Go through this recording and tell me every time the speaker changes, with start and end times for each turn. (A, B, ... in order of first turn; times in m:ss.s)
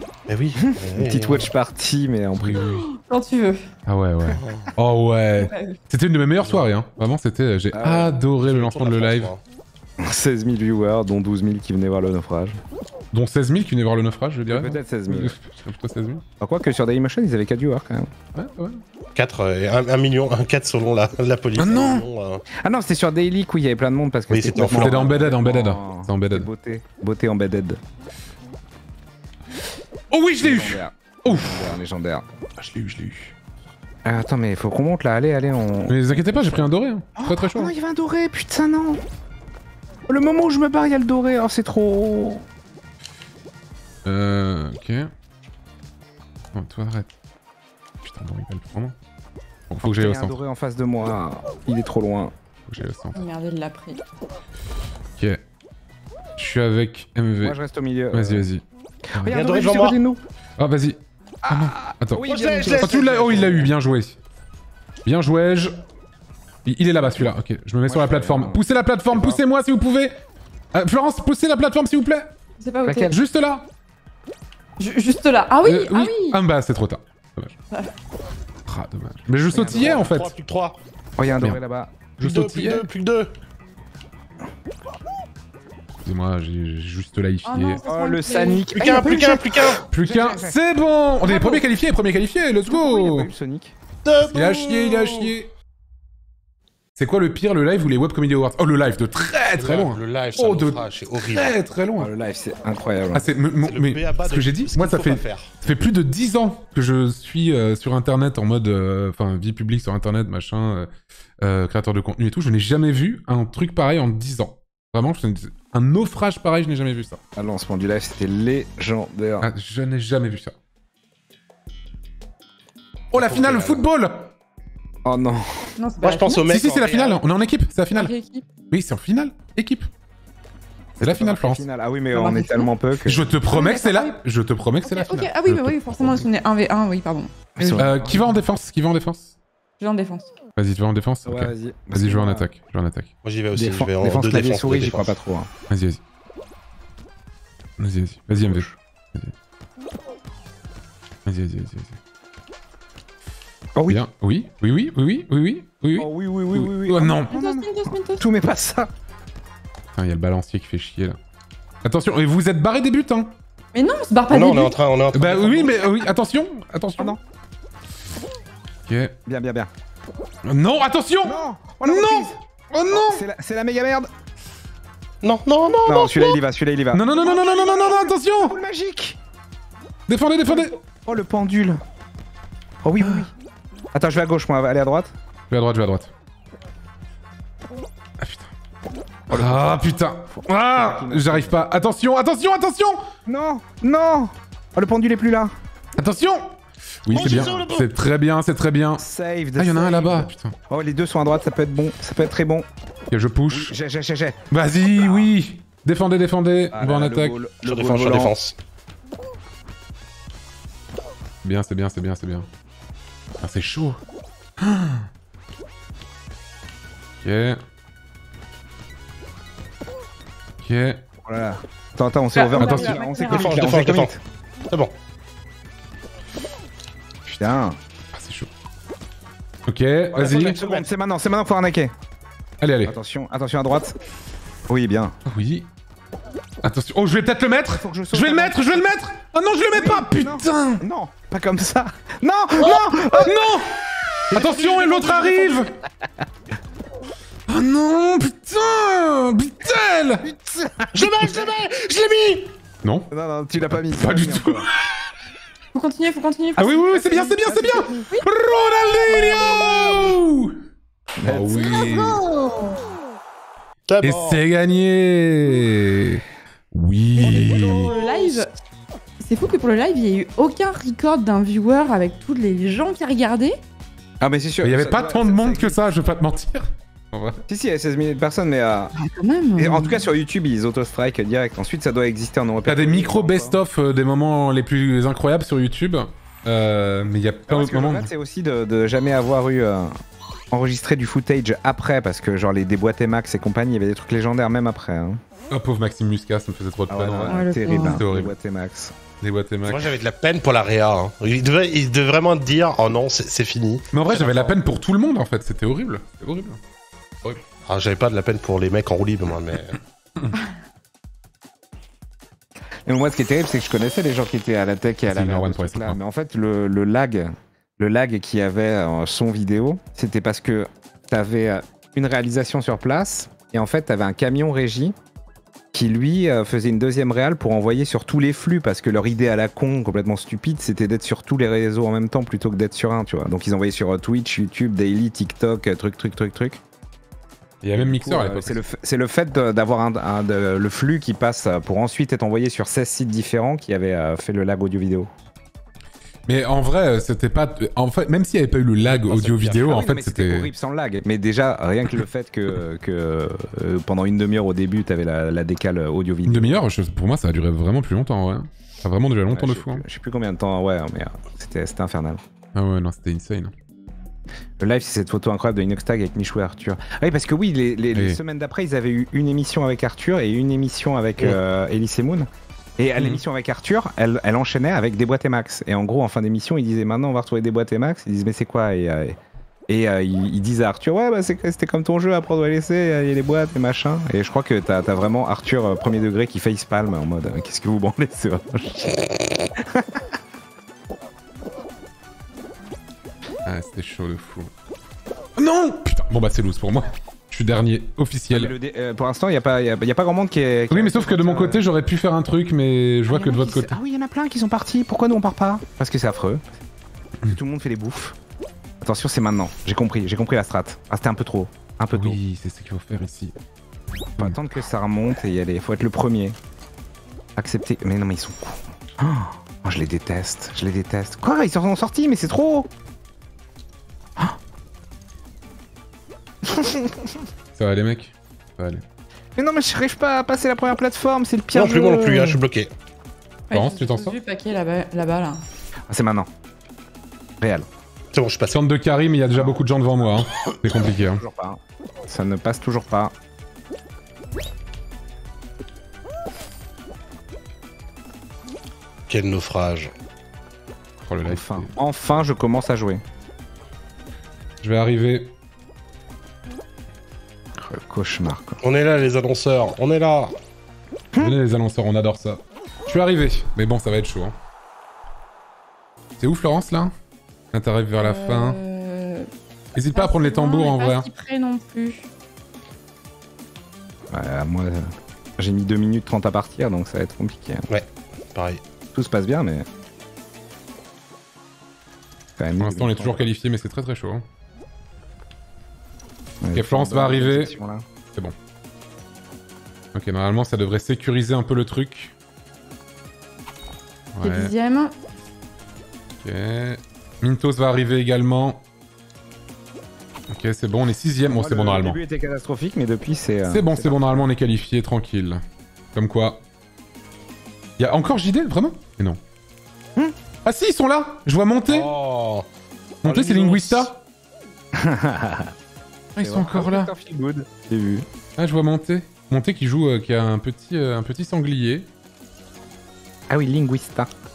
0:00.3-0:01.5 A
0:00.6-0:02.6 B
0:02.4-0:02.8 C
0:02.6-0:03.7 D
0:03.9-0:09.3 C
0:04.4-0:04.7 A
0:05.4-0:05.8 D
0:06.4-0:06.7 A
0:07.7-0:08.2 B
0:08.4-0:09.4 A
0:10.0-0:12.6 B
0:13.1-0:16.2 C
0:14.5-0:15.4 B
0:16.4-0:18.1 B
0:18.4-0:18.8 C
0:19.2-0:22.4 A
0:21.6-0:22.0 C
0:22.6-0:27.8 B
0:24.3-0:25.1 A
0:24.6-0:26.5 C
0:30.1-0:31.7 C
0:30.4-0:32.4 B
0:32.6-0:33.3 C
0:34.0-0:36.6 B
0:35.9-0:37.7 C
0:37.2-0:39.0 B
0:40.1-0:42.4 B
0:44.0-0:45.1 C
0:46.5-0:47.1 C
0:48.0-0:49.0 C
0:49.7-0:50.4 C
0:49.8-0:52.3 B
0:52.7-0:53.2 C
0:53.1-0:54.0 D
0:56.4-0:57.6 C
0:57.4-0:58.5 B
0:58.1-0:58.6 C
0:59.1-1:00.2 B
0:59.2-0:59.4 C
0:59.3-1:00.0 A
1:00.6-1:04.2 C
1:01.4-1:03.7 B
1:02.2-1:03.7 A
1:05.0-1:05.8 C
1:06.6-1:10.2 C
1:07.8-1:09.4 B
1:10.7-1:12.3 C
1:12.6-1:13.2 D
1:12.8-1:13.2 B
1:13.1-1:13.6 C
1:14.8-1:16.4 D
1:15.6-1:17.5 C
1:18.7-1:20.3 C
1:19.5-1:20.1 B
1:19.6-1:20.8 A
1:21.2-1:22.1 B
1:22.2-1:22.9 C
1:22.2-1:23.3 A
1:26.0-1:27.8 C
1:27.4-1:28.7 D
1:27.8-1:30.6 B
1:28.7-1:29.8 A
1:29.9-1:33.3 C
1:31.3-1:31.6 D
1:32.7-1:33.7 B
1:34.0-1:35.3 A
1:34.2-1:35.5 C
1:37.0-1:42.1 C
1:39.6-1:41.6 A
1:42.0-1:43.3 B
1:43.1-1:57.2 C
1:43.6-1:45.6 A
1:57.4-1:59.5 B
1:59.4-2:00.5 C
2:03.1-2:04.3 C
2:03.1-2:03.9 A
2:05.0-2:05.7 B
2:05.8-2:06.5 D
2:06.0-2:07.2 A
2:06.5-2:08.1 C
2:07.9-2:08.5 D
2:08.7-2:09.9 C
2:11.0-2:11.6 C
2:11.0-2:13.3 B
2:12.1-2:12.7 D
2:13.0-2:16.3 C
2:13.5-2:14.2 D
2:14.8-2:18.0 D
2:17.6-2:18.4 B
2:17.8-2:19.3 C
2:19.8-2:20.3 D
2:20.6-2:23.1 C
2:21.3-2:22.5 B
2:23.2-2:25.2 A
2:23.6-2:25.5 B
2:25.7-2:26.0 C
2:27.8-2:29.3 C
2:28.4-2:28.8 B
2:31.2-2:32.0 C
2:33.8-2:34.0 B
2:33.9-2:37.3 C
2:36.0-2:38.9 B
2:37.3-2:38.3 D
2:39.9-2:41.2 C
2:41.8-2:43.3 C
2:43.7-2:44.7 D
2:44.3-2:46.0 A
2:45.1-2:47.2 C
2:48.9-2:49.2 C
2:49.3-2:49.7 B
2:50.4-2:53.2 C
2:51.2-2:54.1 B
2:55.2-2:56.4 A
2:55.8-2:59.2 B
2:56.9-2:58.6 C
3:00.1-3:00.8 C
3:00.4-3:01.8 B
3:02.8-3:03.3 B
3:03.9-3:05.1 B
3:05.5-3:06.1 C
3:08.2-3:08.5 C
3:09.3-3:09.8 B
3:09.3-3:13.1 C
3:10.3-3:11.6 B
3:13.3-3:15.5 B
3:16.0-3:19.0 C
3:17.1-3:17.9 A
3:17.2-3:17.6 B
3:19.0-3:22.7 B
3:19.6-3:20.6 C
3:23.1-3:23.7 C
3:23.5-3:25.3 B
3:24.5-3:27.4 C
3:26.7-3:28.3 B
3:27.6-3:28.6 A
3:31.4-3:32.5 C
3:33.4-3:34.0 C
3:34.6-3:35.1 C
3:37.2-3:37.6 C
3:40.6-3:41.0 C
3:41.2-3:44.2 B
3:42.3-3:43.7 D
3:42.6-3:43.0 C
3:43.2-3:44.1 A
3:47.4-3:47.8 B
3:48.1-3:48.5 C
3:49.7-3:50.6 C
3:50.1-3:51.9 B
3:50.2-3:50.9 A
3:52.6-3:52.9 C
3:52.8-3:54.0 B
3:54.7-3:55.2 B
3:55.3-3:55.7 C
3:56.6-4:00.8 C
3:57.7-3:58.8 B
3:59.7-4:03.6 B
4:02.6-4:03.8 C
4:04.3-4:05.8 B
4:04.3-4:05.7 C
4:07.5-4:10.3 C
4:10.2-4:11.5 B
4:10.9-4:12.5 A
4:12.8-4:13.1 C
4:13.1-4:14.7 B
4:13.7-4:14.9 C
4:15.7-4:18.2 D
4:16.6-4:20.6 C
4:17.4-4:18.1 B
4:21.2-4:22.2 B
4:21.2-4:22.2 C
4:21.6-4:22.8 D
4:23.9-4:24.4 A
4:24.0-4:28.0 C
4:27.2-4:28.4 A
4:27.4-4:28.5 D
4:29.2-4:33.6 D
4:34.2-4:35.8 B
4:34.6-4:37.4 C
4:37.5-4:38.9 B
4:39.0-4:40.1 D
4:39.6-4:43.6 B
4:42.7-4:48.1 C
4:47.5-4:50.0 B
4:50.5-4:55.2 B
4:55.5-4:58.3 C
4:56.9-4:59.0 B
4:57.3-4:58.0 D
4:59.2-4:59.9 C
4:59.7-5:04.6 A
5:03.9-5:06.6 C
5:07.7-5:09.8 A
5:12.9-5:25.0 B
5:15.1-5:16.0 C
5:25.7-5:36.6 B
5:37.6-5:38.6 C
5:37.7-5:45.1 B
5:46.3-5:50.5 C
5:48.8-5:49.8 A
5:49.6-5:56.6 B
5:56.3-5:59.8 C
5:59.3-6:02.2 B
6:02.5-6:03.5 C
6:04.6-6:19.2 B
6:19.7-6:30.2 B
6:33.4-6:34.5 C
6:35.4-6:38.5 C
6:38.3-6:41.7 B
6:40.7-6:43.7 C
6:43.1-6:46.4 B
6:47.3-6:48.2 B
6:48.8-6:52.2 B
6:51.9-6:53.4 C
6:54.2-6:56.4 B
6:57.4-7:02.7 B
7:06.4-7:07.2 B
7:07.6-7:08.8 C
7:09.4-7:12.4 B
7:11.5-7:12.7 A
7:13.5-7:15.4 D
7:13.5-7:14.2 C
7:15.9-7:16.3 B
7:17.4-7:17.7 B
7:18.1-7:18.6 A
7:18.5-7:21.2 C
7:19.3-7:19.6 B
7:20.7-7:23.1 B
7:29.1-7:29.9 A
7:31.0-7:31.7 C
7:31.2-7:33.0 B
7:34.6-7:35.3 C
7:37.6-7:38.6 B
7:38.6-7:40.4 A
7:41.2-7:44.4 C
7:46.2-7:46.9 C
7:47.5-7:48.6 C
7:48.0-7:49.3 D
7:49.8-7:51.1 C
7:50.0-7:52.1 D
7:54.1-7:57.7 B
7:57.7-7:58.6 A
7:58.9-7:59.7 B
8:02.4-8:03.3 B
8:02.6-8:04.3 C
8:06.4-8:07.8 B
8:06.5-8:07.5 C
8:09.9-8:12.1 C
8:14.1-8:14.5 C
8:14.2-8:14.9 D
8:16.2-8:18.6 C
8:20.3-8:22.0 C
8:21.3-8:24.2 B
8:23.5-8:26.4 C
8:27.8-8:29.2 C
8:30.4-8:31.9 C
8:31.7-8:32.5 A
8:33.0-8:34.0 C
8:33.0-8:33.9 A
8:34.7-8:35.5 B
8:36.2-8:36.9 C
8:36.2-8:38.1 B
8:38.4-8:41.9 C
8:43.3-8:44.1 B